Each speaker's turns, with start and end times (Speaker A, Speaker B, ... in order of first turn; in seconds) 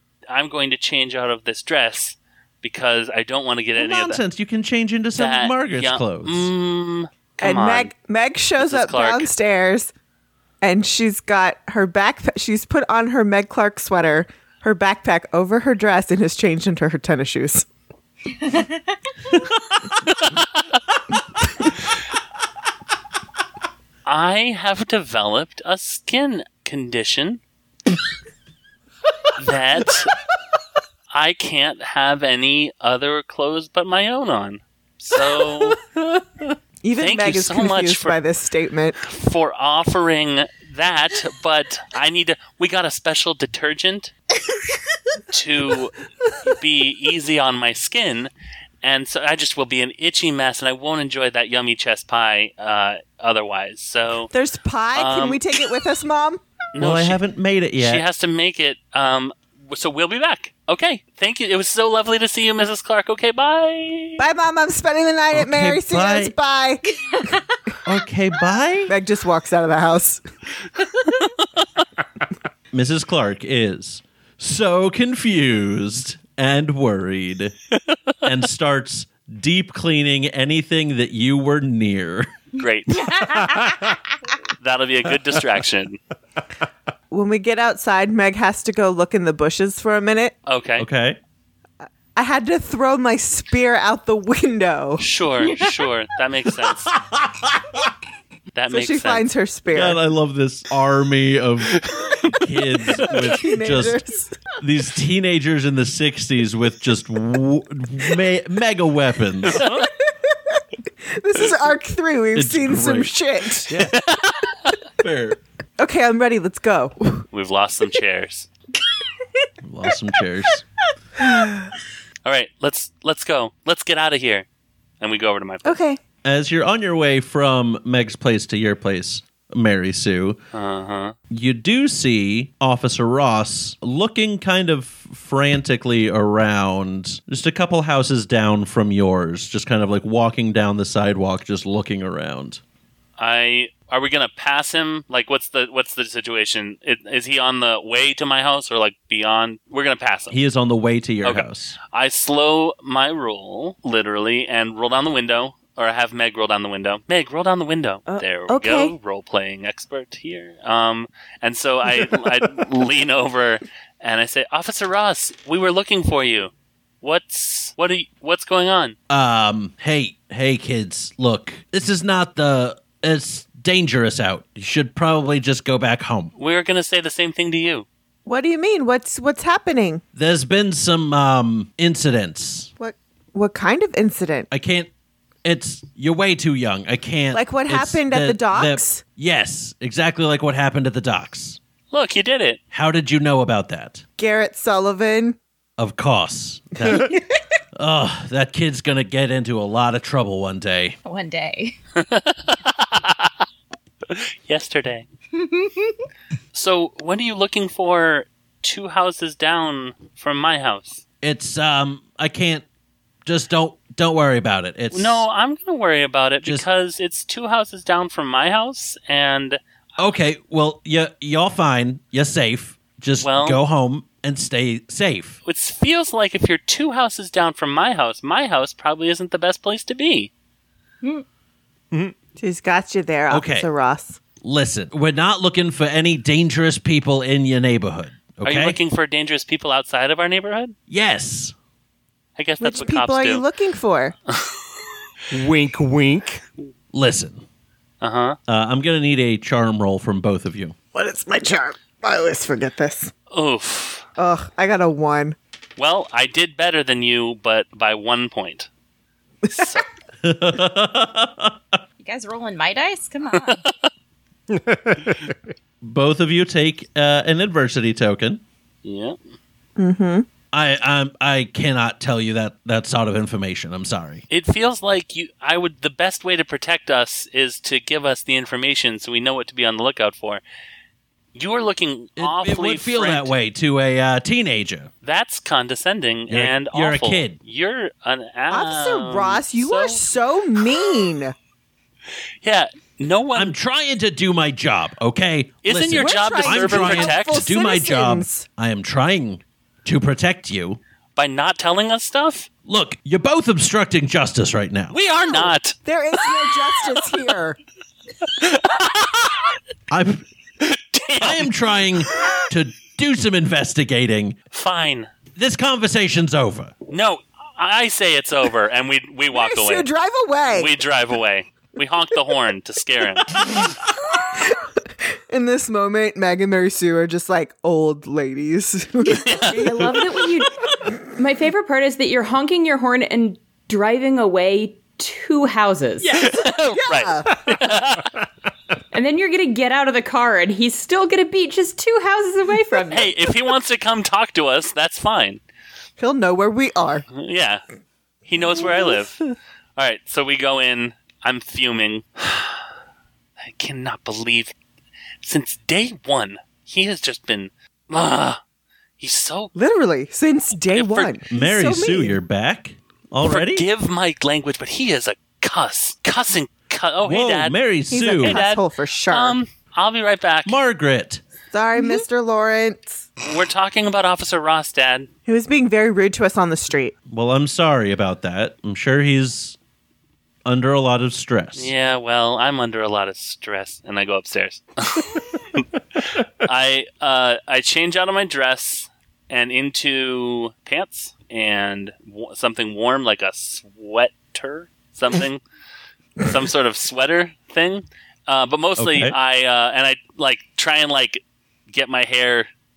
Speaker A: 0.3-4.2, 5.1-7.9, 8.6-9.3, 20.1-20.4, 24.1-27.4, 29.3-30.1, 31.1-35.8, 37.0-38.1, 39.0-44.1, 45.3-48.3, 48.8-54.3, 54.9-55.4, 56.7-57.2, 57.8-64.2, 82.6-83.6, 84.6-86.0, 90.5-90.8, 95.0-96.9, 98.5-99.3, 109.5-109.8, 113.9-114.5, 117.3-118.5, 122.2-124.4, 125.0-125.8, 130.5-131.1, 143.2-150.4, 151.2-168.9, 176.3-177.8, 191.9-192.6, 201.9-203.3, 204.1-205.1, 206.5-211.0, 214.9-219.6, 223.2-223.6, 225.4-230.3, 238.4-240.7, 242.4-243.4, 244.3-244.7, 248.0-248.4, 253.3-254.1, 255.8-258.7, 259.5-259.8, 263.4-263.7, 268.8-269.1, 274.3-280.4, 281.3-283.3, 285.0-290.0, 292.4-293.6, 295.6-297.5, 301.1-302.5, 304.9-305.8, 308.2-309.4, 310.6-311.5, 314.5-315.1, 316.9-319.9, 320.5-323.6, 329.0-329.6, 336.1-338.1, 342.9-345.4, 347.1-347.6, 348.3-349.2, 349.8-352.6, 353.4-354.5, 355.2-358.4, 359.0-359.5, 360.7-361.1, 363.2-367.6, 368.2-370.6, 373.2-375.1, 381.6-395.4, 396.2-402.5
Speaker B: 3.8-6.5, 56.8-58.0, 65.3-66.3, 67.8-68.9, 72.7-77.5, 78.2-82.3, 90.8-91.2, 99.7-104.0, 104.6-109.8, 112.3-113.1, 115.0-115.4, 119.6-120.6, 126.2-130.4, 131.3-142.6, 150.3-151.8, 169.1-176.3, 180.1-182.7, 184.5-184.9, 185.4-191.6, 192.7-194.0, 195.8-197.2, 197.7-201.0, 211.2-212.6, 213.2-215.2, 220.0-225.4, 233.3-233.7, 234.4-238.8, 240.9-241.5, 246.9-247.4, 248.5-250.7, 260.2-261.8, 265.8-268.4, 270.5-274.2, 282.2-284.9, 286.3-287.4, 293.3-300.8, 302.6-304.9, 309.9-310.2, 311.2-314.4, 315.4-316.7, 361.3-363.6, 367.0-368.4, 370.4-371.2, 377.1-379.6, 380.4-381.7, 398.8-399.1
Speaker C: 7.4-9.9, 10.6-17.7, 36.8-39.0, 54.3-56.4, 64.2-67.2, 68.9-70.2, 87.1-90.3, 92.1-95.0, 98.7-100.0, 102.9-104.4, 109.7-113.8, 115.8-117.2, 121.2-121.7, 125.6-126.0, 158.1-158.9, 178.2-180.0, 182.8-184.5, 187.3-189.0, 194.2-195.4, 232.4-234.2, 242.6-244.1, 250.9-253.1, 254.2-255.4, 269.8-270.2, 288.5-291.3, 295.9-298.5, 305.8-307.6, 319.3-320.8, 324.3-330.0, 336.4-337.3, 346.0-347.0, 348.6-349.0, 359.5-362.2, 367.9-369.4, 371.5-373.1, 375.2-376.9
Speaker D: 113.7-113.9, 245.3-246.4, 264.5-265.4
Speaker E: 201.0-201.8, 205.3-205.9, 262.0-263.6
Speaker F: 329.4-336.2, 338.9-343.1